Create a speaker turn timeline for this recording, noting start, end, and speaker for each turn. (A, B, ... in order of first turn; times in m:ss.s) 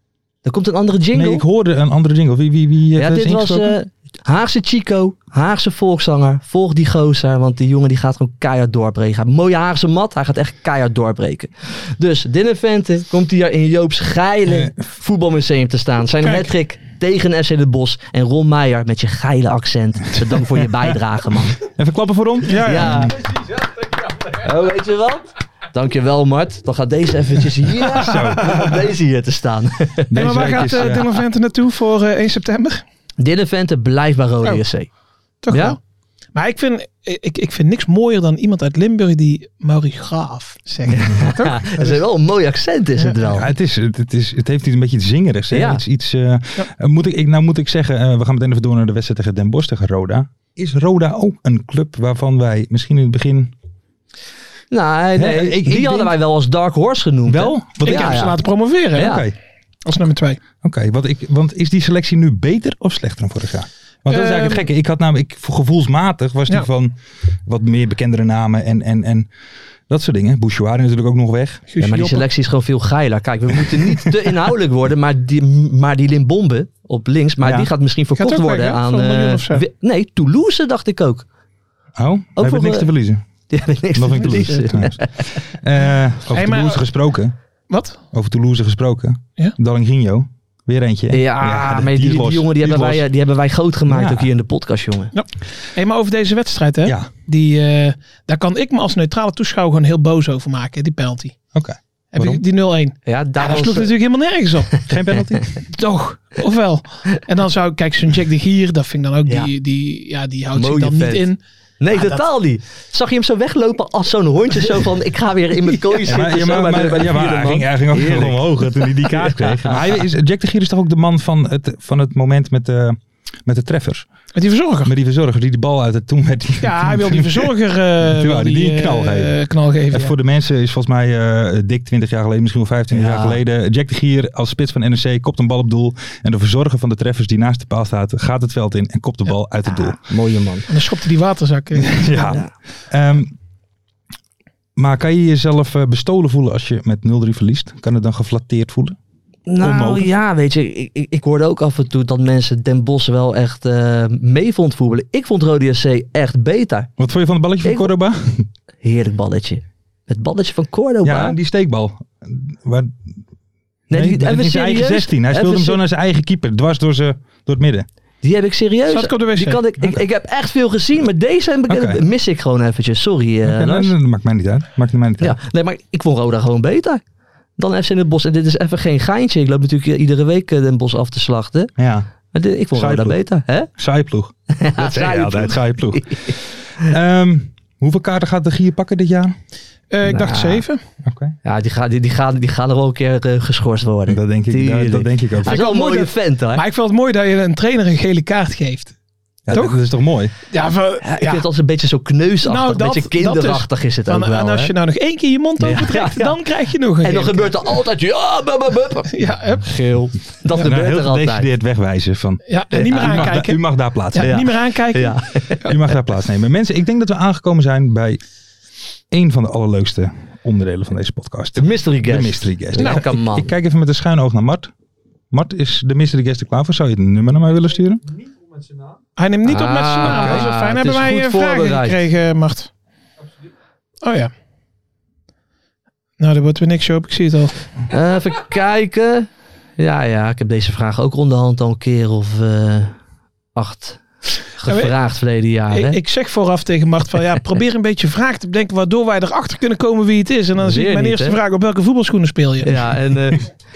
0:00.4-0:01.4 A
0:01.1-0:03.8 B
0:03.0-0:21.6 A
0:14.5-0:14.7 B
0:16.2-0:16.5 C
0:21.6-0:23.2 B
0:22.5-0:23.0 C
0:22.6-0:23.2 A
0:24.3-0:30.7 A
0:27.8-0:28.8 B
0:30.1-0:31.1 B
0:30.1-0:32.8 C
0:33.2-0:34.9 A
0:35.4-0:35.8 C
0:35.5-0:35.8 A
0:36.3-0:42.0 C
0:40.9-0:43.5 A
0:43.0-0:43.2 C
0:43.4-0:53.5 B
0:45.5-0:45.8 A
0:54.7-0:58.3 A
0:55.2-0:56.1 B
0:57.3-0:59.3 B
0:57.8-0:59.2 C
0:59.0-0:59.2 A
0:59.8-1:00.4 C
1:00.6-1:09.3 B
1:04.1-1:04.6 C
1:09.9-1:11.6 B
1:11.7-1:12.2 C
1:11.8-1:21.2 A
1:17.4-1:17.7 B
1:18.2-1:19.6 C
1:22.0-1:23.2 B
1:22.4-1:22.9 A
1:23.5-1:25.3 A
1:23.9-1:27.3 B
1:24.2-1:24.6 C
1:26.3-1:26.8 C
1:27.7-1:28.0 C
1:28.1-1:33.0 B
1:31.1-1:35.1 A
1:33.9-1:34.3 B
1:35.1-1:41.3 C
1:36.8-1:37.1 B
1:41.5-1:42.4 B
1:42.1-1:44.7 C
1:43.0-1:43.9 A
1:44.9-1:45.5 B
1:45.7-1:51.4 C
1:50.5-1:59.8 A
1:51.9-1:52.2 C
1:56.0-2:04.1 B
2:04.3-2:04.9 C
2:04.8-2:09.3 B
2:06.6-2:10.1 C
2:09.9-2:20.1 B
2:12.9-2:13.4 A
2:19.7-2:20.7 A
2:20.7-2:22.4 C
2:21.8-2:23.3 B
2:24.8-2:29.0 B
2:29.5-2:36.9 A
2:29.6-2:30.1 B
2:37.0-2:38.5 B
2:37.6-2:37.9 A
2:38.8-2:41.4 A
2:41.0-2:43.0 B
2:43.9-2:45.8 A
2:43.9-2:47.9 B
2:48.2-2:53.9 A
2:48.9-2:49.6 C
2:51.7-2:52.0 B
2:53.4-2:55.4 B
2:55.2-2:57.0 A
2:57.6-3:01.7 A
3:01.8-3:02.1 B
3:02.3-3:03.7 A
3:02.7-3:09.3 B
3:04.5-3:06.3 A
3:09.9-3:10.8 C
3:10.0-3:10.6 A
3:11.0-3:11.4 B
3:11.4-3:16.6 A
3:14.1-3:15.6 B
3:15.4-3:18.9 C
3:19.5-3:20.3 B
3:19.5-3:19.8 C
3:20.4-3:21.4 C
3:21.0-3:24.7 A
3:22.4-3:27.8 C
3:25.6-3:26.4 A
3:27.0-3:31.5 A
3:29.1-3:29.7 C
3:30.5-3:34.4 B
3:32.5-3:35.7 C
3:32.7-3:33.4 A
3:34.2-3:35.6 A
3:35.6-3:38.2 B
3:39.1-3:44.7 B
3:41.6-3:43.5 A
3:45.3-3:48.0 B
3:49.2-3:52.7 C
3:49.4-3:52.0 A
3:50.0-3:50.4 B
3:54.0-3:54.3 C
3:56.2-3:57.5 C
3:57.9-4:03.0 A
4:03.5-4:06.0 A
4:04.7-4:04.9 C
4:05.7-4:12.8 C
4:10.6-4:11.4 A
4:12.6-4:13.5 A